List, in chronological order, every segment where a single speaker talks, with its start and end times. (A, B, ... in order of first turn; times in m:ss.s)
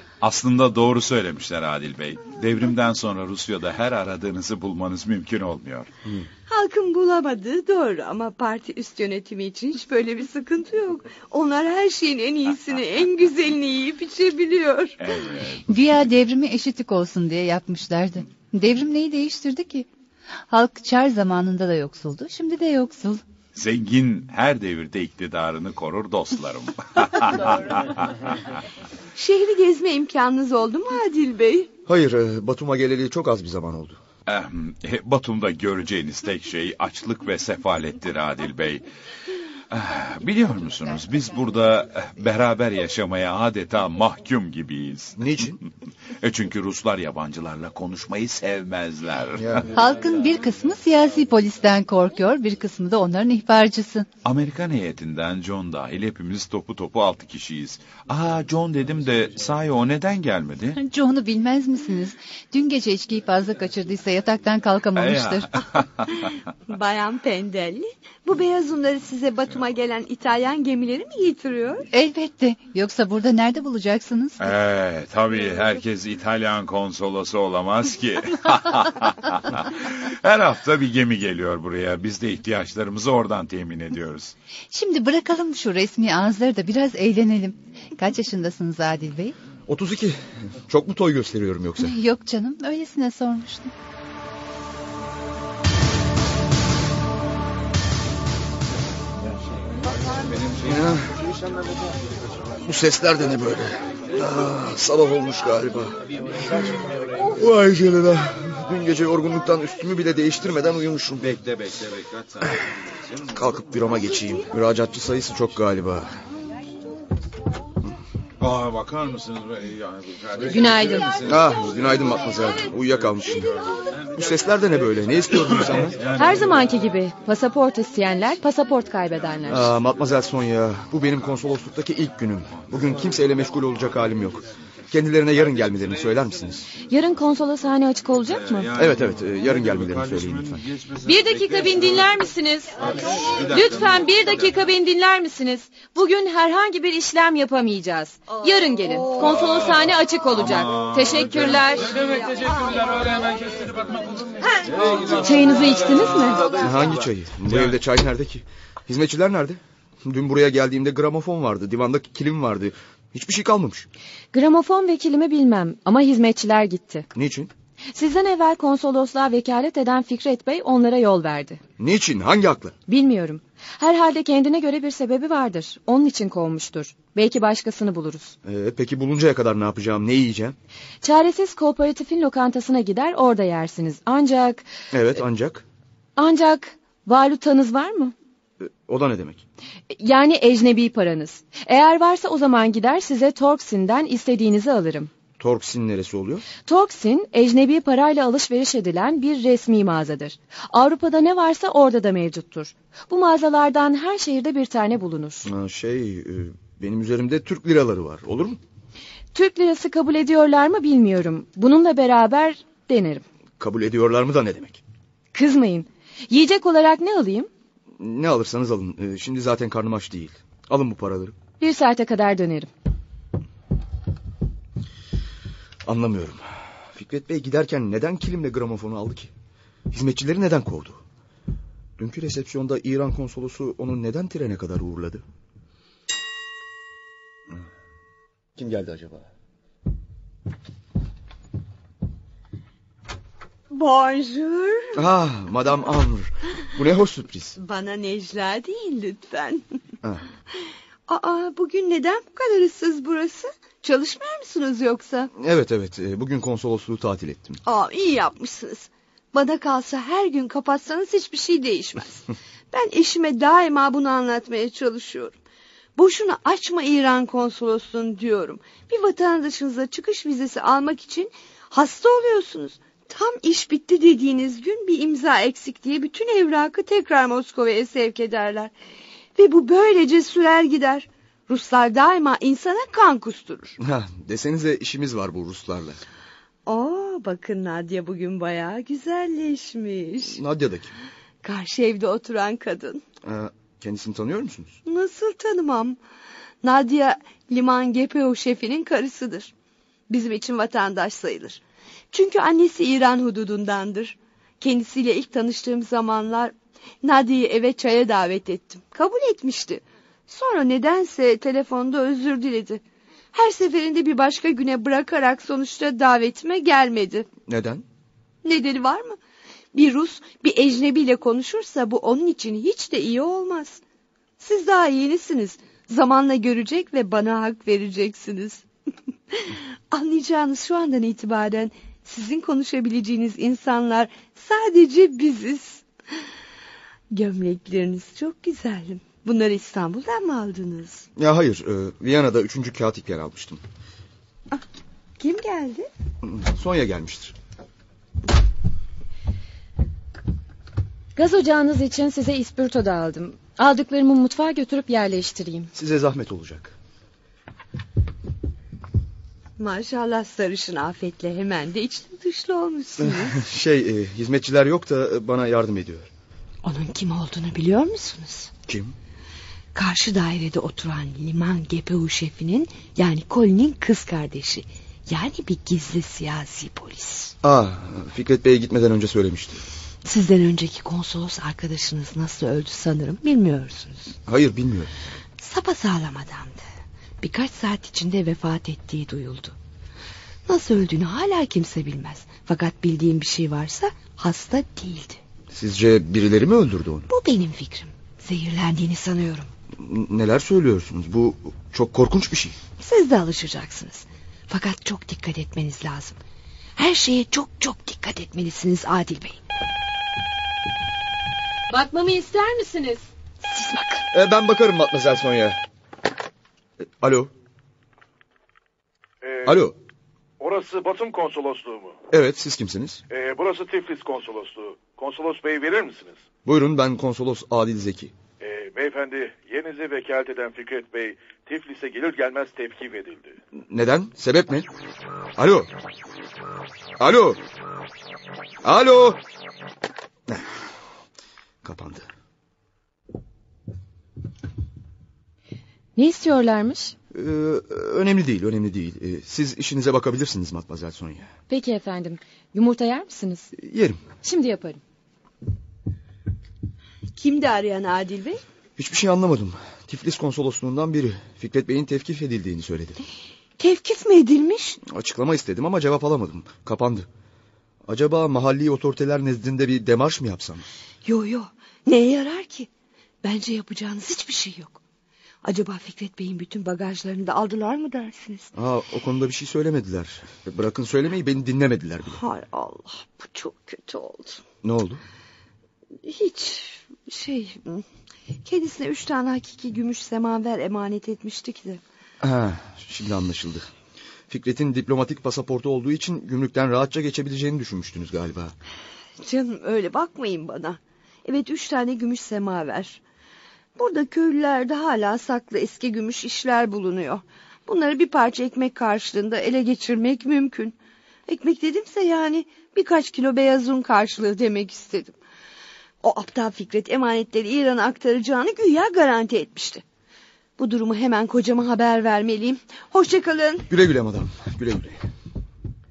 0:00.2-0:05.9 A
0:06.5-0:14.9 B
0:15.0-0:15.9 A
0:15.7-0:19.9 C
0:20.5-0:23.2 C
0:23.5-0:28.2 A
0:29.1-0:31.7 B
0:31.9-0:34.0 D
0:34.3-0:38.8 A
0:39.7-0:45.4 A
0:45.2-0:45.6 D
0:46.2-0:49.6 A
0:49.4-0:49.6 D
0:49.7-0:54.1 C
0:54.2-1:00.8 A
1:00.8-1:05.5 C
1:05.0-1:06.2 A
1:06.7-1:11.8 B
1:11.9-1:14.4 C
1:14.4-1:24.3 A
1:24.7-1:29.3 C
1:29.7-1:31.9 D
1:31.8-1:33.7 C
1:40.5-1:41.2 D
1:42.6-1:51.3 D
1:51.2-1:52.6 A
1:53.3-1:56.1 D
1:58.4-2:01.8 A
2:00.4-2:01.1 E
2:01.2-2:06.1 D
2:06.1-2:09.7 E
2:09.5-2:16.7 D
2:16.8-2:18.7 E
2:18.4-2:22.1 A
2:18.8-2:20.6 D
2:21.0-2:22.7 E
2:22.8-2:24.3 A
2:23.4-2:31.9 E
2:29.3-2:29.8 A
2:30.4-2:31.8 A
2:32.3-2:32.8 B
2:34.8-2:35.1 A
2:35.1-2:36.5 E
2:36.6-2:43.9 D
2:37.5-2:37.7 A
2:44.3-2:47.1 E
2:47.1-2:47.5 D
2:47.9-2:51.6 E
2:51.8-2:52.7 D
2:52.9-2:58.4 E
2:58.4-3:00.6 D
3:01.0-3:04.6 E
3:04.9-3:05.6 D
3:06.2-3:08.1 E
3:08.6-3:09.4 D
3:09.9-3:15.1 E
3:15.4-3:16.4 D
3:16.6-3:25.5 E
3:25.4-3:28.6 D
3:29.3-3:33.2 E
3:33.6-3:34.8 D
3:35.3-3:37.5 E
3:38.0-3:41.4 D
3:41.6-3:42.7 E
3:45.8-3:49.3 D
3:49.9-3:51.0 D
3:52.0-3:55.2 D
3:58.6-3:59.2 D
4:03.7-4:05.0 B
4:04.9-4:07.6 D
4:07.6-4:09.7 B
4:11.1-4:15.3 B
4:15.3-4:17.6 D
4:17.6-4:25.4 B
4:26.0-4:38.7 B
4:39.3-4:43.8 B
4:43.8-4:46.0 D
4:46.6-4:50.4 B
4:50.3-4:50.9 D
4:51.4-4:53.0 B
4:53.2-4:54.8 D
4:54.8-4:56.0 B
4:56.6-4:59.5 B
5:00.1-5:12.8 B
5:13.3-5:17.3 B
5:17.5-5:17.8 D
5:18.4-5:19.2 B
5:19.7-5:23.8 B
5:24.4-5:28.6 B
5:29.3-5:35.8 B
5:37.1-5:41.1 B
5:41.2-5:43.6 D
5:45.2-5:45.9 B
5:46.2-5:47.3 D
5:51.2-5:55.7 E
5:55.7-5:56.7 D
5:59.6-6:03.4 B
6:03.0-6:06.1 D
6:06.6-6:08.5 B
6:08.7-6:09.0 D
6:09.7-6:17.3 B
6:17.4-6:19.6 D
6:20.0-6:24.1 B
6:24.2-6:24.9 D
6:25.4-6:26.6 B
6:27.2-6:29.5 B
6:30.5-6:35.2 B
6:35.5-6:37.1 D
6:37.1-6:39.5 B
6:39.8-6:42.6 D
6:42.8-6:46.2 B
6:46.8-6:49.4 B
6:51.7-6:53.1 E
6:53.4-6:54.1 B
6:54.1-6:55.6 D
6:56.8-6:57.3 D
6:59.2-6:59.7 F
6:59.4-6:59.7 D
7:00.4-7:02.0 F
7:02.1-7:03.0 D
7:03.1-7:06.2 F
7:06.4-7:08.1 D
7:08.4-7:13.4 F
7:13.6-7:14.7 D
7:15.4-7:15.7 D
7:17.0-7:17.4 D
7:18.6-7:19.2 D
7:21.6-7:22.1 D
7:26.0-7:26.9 E
7:27.1-7:31.3 D
7:31.5-7:33.5 E
7:33.6-7:34.0 D
7:34.2-7:34.8 E
7:37.2-7:38.4 B
7:38.8-7:43.0 D
7:43.6-7:44.8 B
7:44.8-7:47.1 D
7:47.8-7:50.6 D
7:51.0-7:52.7 B
7:53.2-7:54.8 B
7:55.4-7:58.5 B
7:58.5-8:02.2 D
8:02.0-8:04.4 B
8:04.6-8:05.0 D
8:06.0-8:07.8 B
8:08.4-8:11.8 B
8:12.2-8:13.7 D
8:14.3-8:18.5 D
8:19.2-8:23.0 B
8:23.8-8:30.8 B
8:31.3-8:35.2 B
8:36.0-8:39.8 B
8:40.6-8:43.7 B
8:43.7-8:45.0 D